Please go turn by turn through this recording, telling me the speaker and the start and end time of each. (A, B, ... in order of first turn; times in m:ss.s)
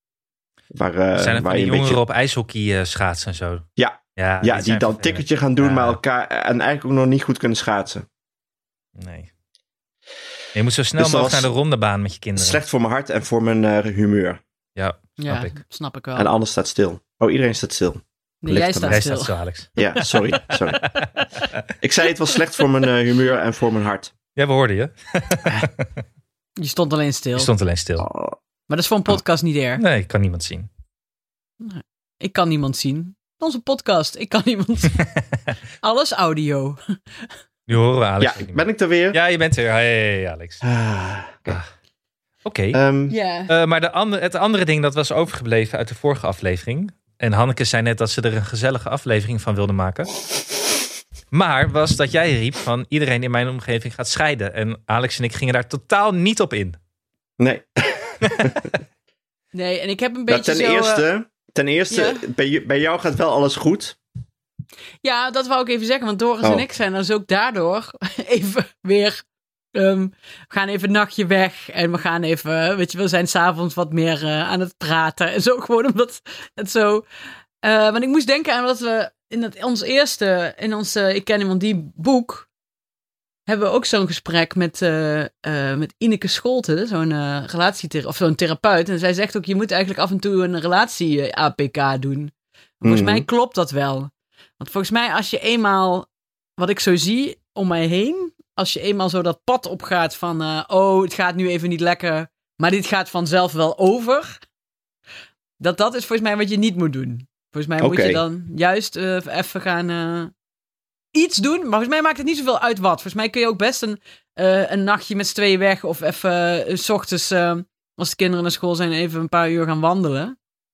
0:00.7-0:02.0 A
0:01.2-0:06.0 B
0:03.8-0:08.1 A
0:09.0-0:09.3 B
0:10.5-0:12.6 B
0:11.0-0:11.5 A
0:12.4-0:14.4 A
0:14.8-0:15.6 B
0:15.2-0:16.3 C
0:16.2-0:19.0 A
0:18.4-0:20.5 C
0:18.9-0:19.7 B
0:19.8-0:20.9 A
0:21.8-0:24.1 A
0:24.4-0:25.9 B
0:26.6-0:27.5 C
0:27.4-0:28.1 B
0:28.0-0:28.4 A
0:28.7-0:29.8 C
0:29.8-0:30.7 B
0:31.6-0:35.0 C
0:35.0-0:35.5 B
0:35.8-0:36.8 C
0:37.7-0:40.6 B
0:38.2-0:39.2 A
0:40.6-0:41.6 A
0:42.4-0:42.8 B
0:42.7-0:43.2 A
0:43.1-0:43.5 C
0:43.5-0:50.1 B
0:51.3-0:56.8 B
0:57.4-0:58.7 A
0:59.5-1:01.0 C
1:00.3-1:04.0 A
1:01.9-1:02.2 C
1:05.0-1:09.2 C
1:09.8-1:17.0 C
1:17.6-1:22.5 C
1:23.5-1:44.4 C
1:32.8-1:33.3 A
1:45.6-1:50.3 C
1:47.8-1:48.2 A
1:51.1-2:00.4 C